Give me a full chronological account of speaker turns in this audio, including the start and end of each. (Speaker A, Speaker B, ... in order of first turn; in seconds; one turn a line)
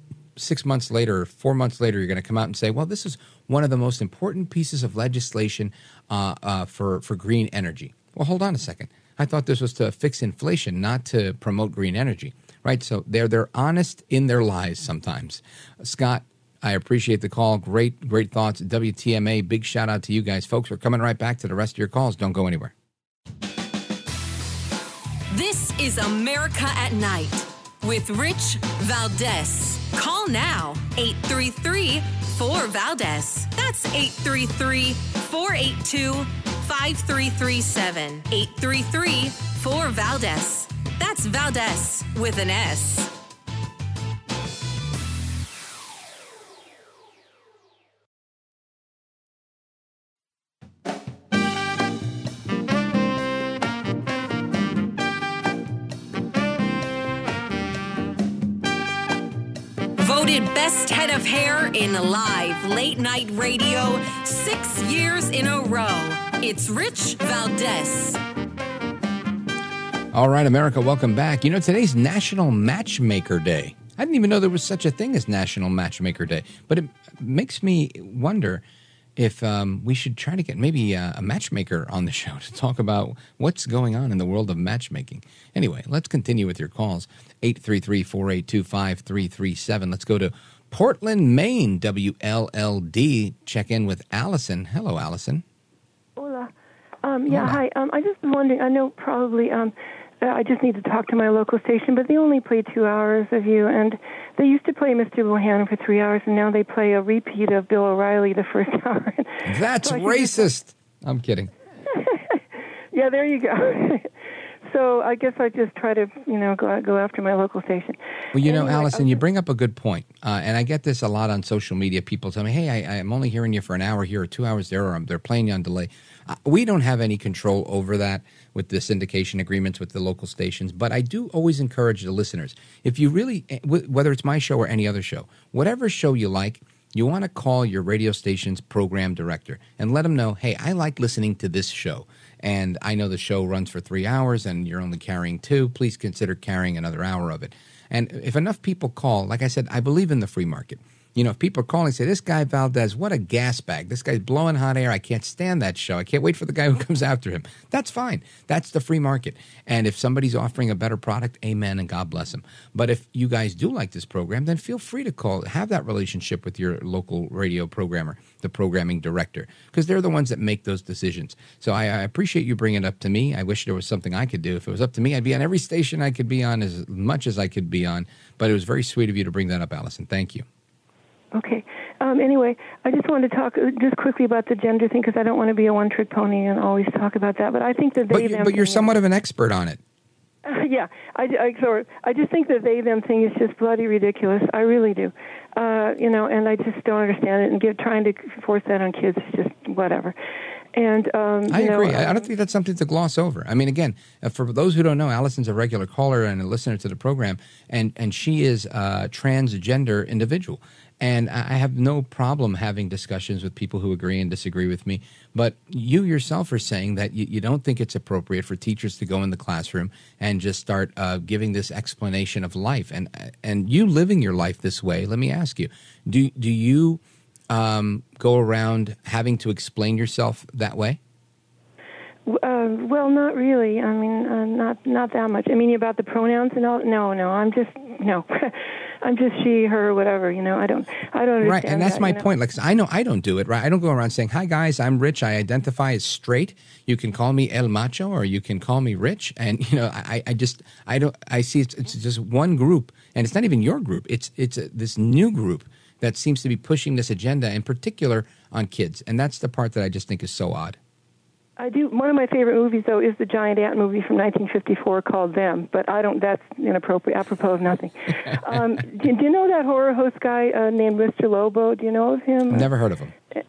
Speaker A: 0.4-22.7
Speaker B: 25.3-43.1
Speaker B: 60.0-68.2
Speaker A: 70.1-78.6
Speaker A: 79.2-95.4
Speaker C: 96.2-96.5
Speaker C: 97.0-110.5
Speaker A: 97.3-97.6
Speaker A: 109.5-111.5
Speaker C: 112.0-112.4
Speaker C: 112.9-114.1
Speaker C: 114.7-119.2
Speaker A: 118.3-180.4
Speaker C: 181.3-188.9
Speaker A: 188.1-189.8
Speaker C: 190.4-200.1
Speaker C: 200.8-202.3
Speaker A: 201.5-231.0
Speaker C: 232.3-238.5
Speaker C: 239.1-242.2
Speaker A: 241.4-260.8
Speaker C: 261.6-272.7
Speaker A: 272.5-273.1